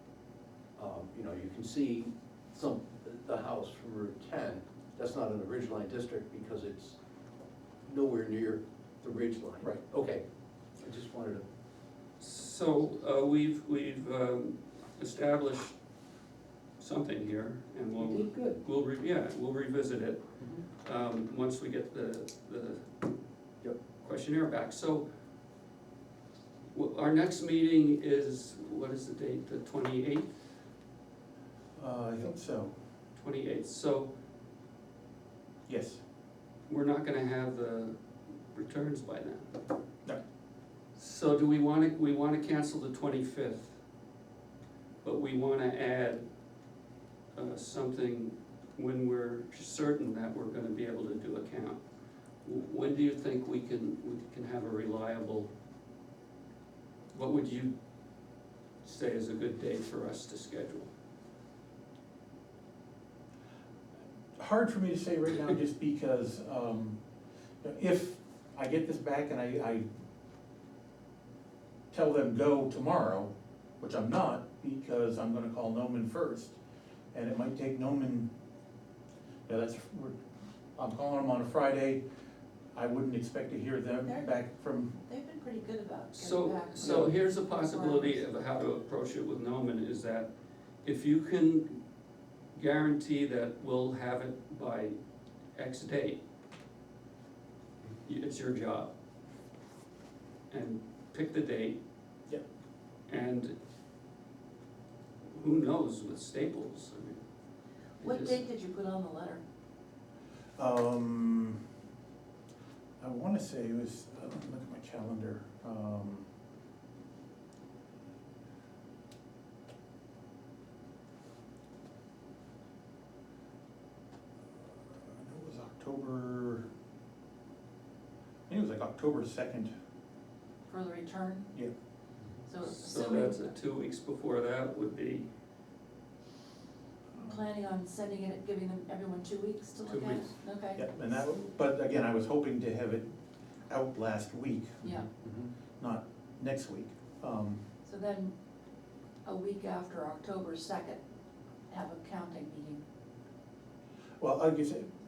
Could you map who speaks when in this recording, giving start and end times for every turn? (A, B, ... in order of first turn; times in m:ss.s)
0:00.8-0:07.0 A
0:07.8-0:10.2 A
0:10.8-0:11.4 A
0:12.2-0:15.7 B
0:16.8-0:20.2 B
0:18.0-0:18.6 A
0:20.8-0:22.9 B
0:24.0-0:25.0 B
0:26.7-0:30.3 B
0:31.8-0:32.7 C
0:33.2-0:34.1 B
0:35.7-0:36.0 C
0:36.7-0:38.0 B
0:38.5-0:39.6 B
0:41.0-0:43.8 B
0:45.0-0:46.2 B
0:47.3-0:51.8 B
0:52.4-0:55.5 B
0:57.1-0:57.7 B
0:58.8-1:00.9 B
1:04.4-1:07.0 C
1:07.6-1:09.8 C
1:11.9-1:16.6 C
1:17.1-1:18.3 C
1:19.5-1:20.2 C
1:20.8-1:22.0 C
1:22.7-1:25.0 C
1:25.0-1:28.2 D
1:26.2-1:30.3 B
1:26.8-1:27.1 C
1:30.8-1:31.8 B
1:32.5-1:35.0 B
1:35.5-1:36.2 B
1:38.0-1:38.9 B
1:40.5-1:41.8 B
1:43.1-1:43.5 B
1:45.3-1:47.2 B
1:48.0-1:48.4 B
1:48.0-1:49.4 D
1:50.6-1:51.6 C
1:53.0-1:56.3 C
2:04.9-2:06.6 C
2:08.5-2:09.7 C
2:10.7-2:11.5 D
2:12.4-2:13.5 D
2:12.6-2:15.3 B
2:17.2-2:20.9 D
2:19.8-2:20.3 B
2:20.7-2:23.1 C
2:23.7-2:25.0 C
2:24.8-2:25.1 D
2:25.0-2:25.5 A
2:25.8-2:27.6 C
2:27.8-2:28.3 D
2:29.2-2:31.0 D
2:31.7-2:32.8 D
2:34.2-2:34.9 C